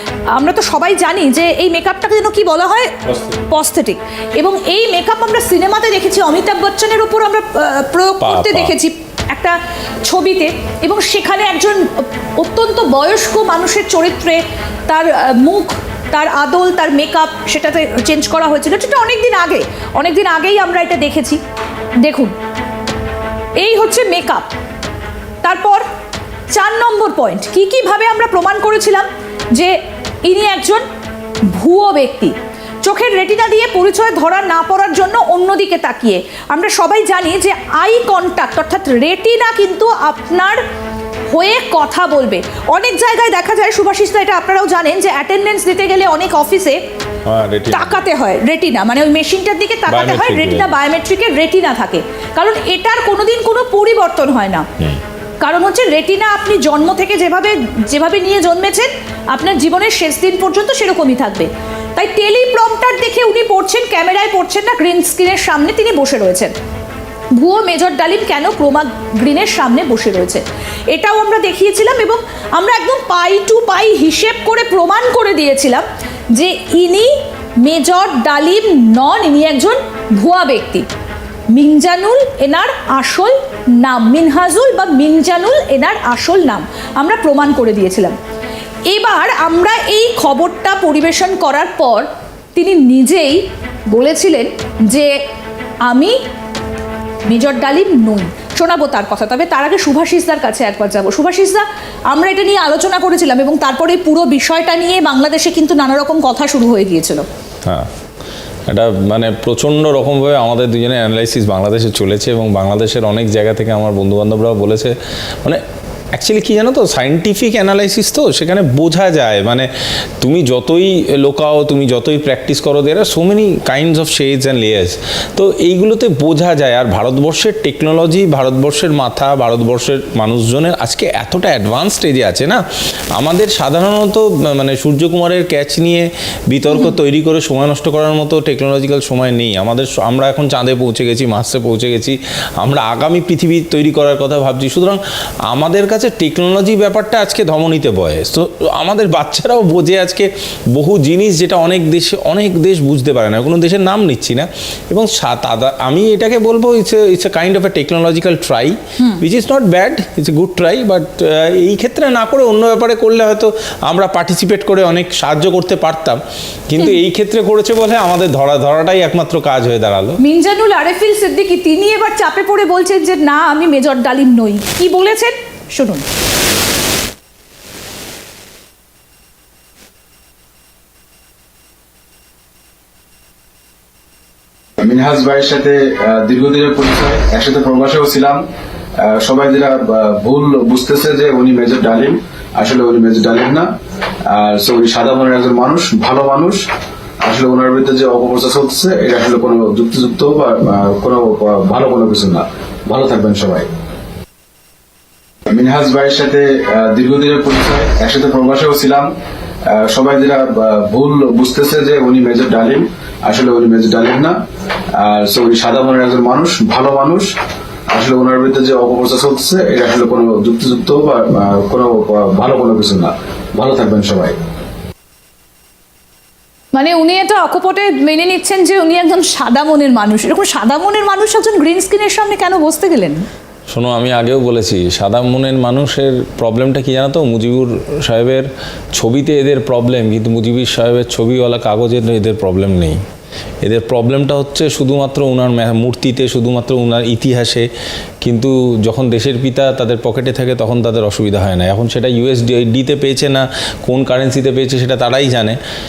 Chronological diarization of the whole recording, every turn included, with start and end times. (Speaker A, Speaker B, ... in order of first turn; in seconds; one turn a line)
Speaker A: 0.3-21.4
Speaker B: 3.0-3.4
Speaker B: 8.2-8.7
Speaker A: 22.0-22.3
Speaker A: 23.6-24.5
Speaker A: 25.4-25.8
Speaker A: 26.5-30.8
Speaker A: 31.5-40.6
Speaker A: 41.3-46.8
Speaker B: 47.2-48.0
Speaker A: 47.7-54.7
Speaker B: 49.9-50.7
Speaker A: 55.4-66.5
Speaker A: 67.3-80.9
Speaker A: 81.5-88.2
Speaker A: 88.9-95.1
Speaker A: 95.8-96.2
Speaker A: 97.2-107.3
Speaker B: 107.6-107.9
Speaker B: 108.7-132.6
Speaker B: 133.1-170.2
Speaker A: 170.2-176.1
Speaker C: 184.8-188.4
Speaker C: 189.0-193.7
Speaker C: 194.2-196.6
Speaker C: 197.2-203.7
Speaker C: 205.5-209.1
Speaker C: 209.7-214.4
Speaker C: 214.9-217.3
Speaker C: 217.9-224.4
Speaker A: 226.7-233.2
Speaker B: 233.7-243.0
Speaker B: 243.6-247.7
Speaker B: 248.2-255.6